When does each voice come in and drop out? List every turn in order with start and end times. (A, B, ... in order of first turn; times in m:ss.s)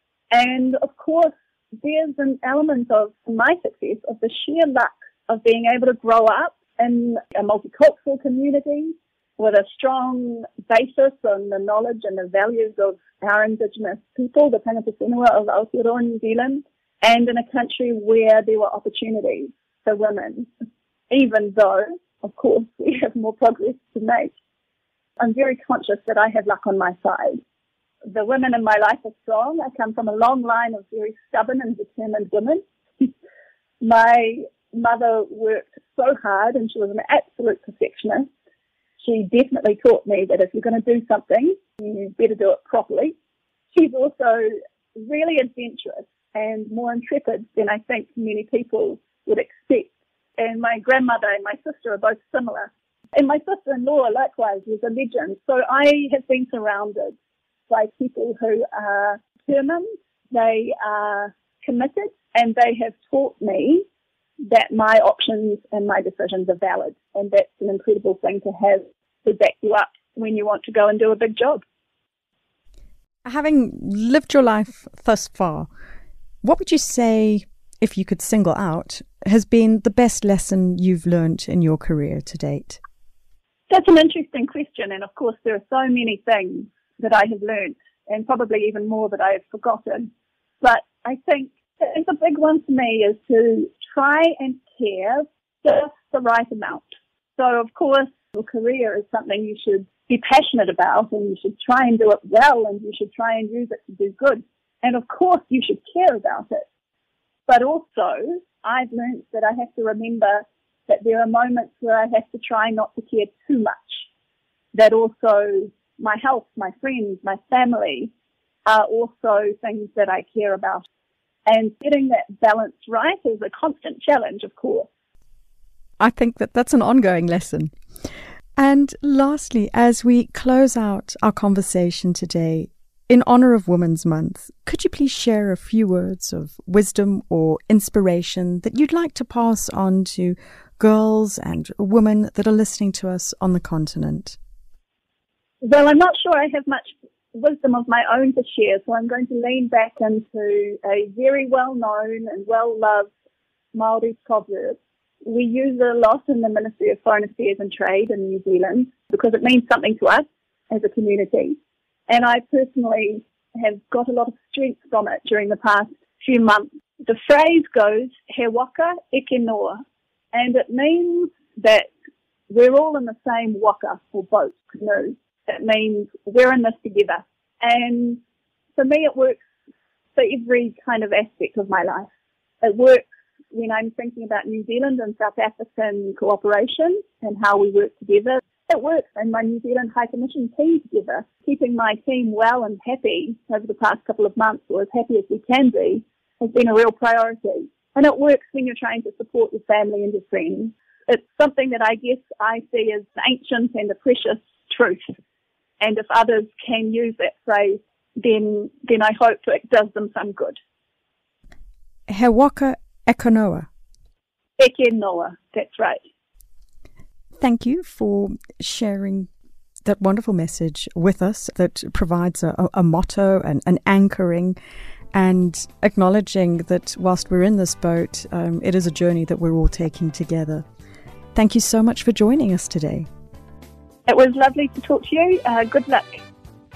0:00.3-0:20.5 A
0:21.1-0:24.3 A
0:25.2-0:27.4 A
0:28.1-0:33.1 A
0:33.8-0:38.3 A
0:39.0-0:43.2 A
0:43.7-0:57.2 A
0:57.7-1:03.8 A
1:04.4-1:11.6 A
1:13.2-1:15.7 B
1:16.4-1:22.8 B
1:23.7-1:30.1 A
1:30.6-1:46.7 A
1:47.5-1:54.0 A
1:54.7-1:58.1 A
1:58.7-2:00.9 A
2:01.5-2:04.9 A
2:06.0-2:07.7 B
2:08.6-2:24.4 B
2:25.6-2:33.1 A
2:33.7-2:41.6 A
2:42.1-2:49.8 A
2:50.3-2:51.9 A
2:52.5-2:58.2 A
2:58.8-2:59.4 A
3:00.2-3:02.1 A
3:02.6-3:25.1 A
3:25.8-3:30.6 A
3:32.1-3:33.7 B
3:34.6-3:36.0 A
3:37.4-3:39.3 B
3:39.8-3:44.6 B
3:45.1-3:50.7 B
3:51.4-3:53.1 B
3:54.1-3:56.2 A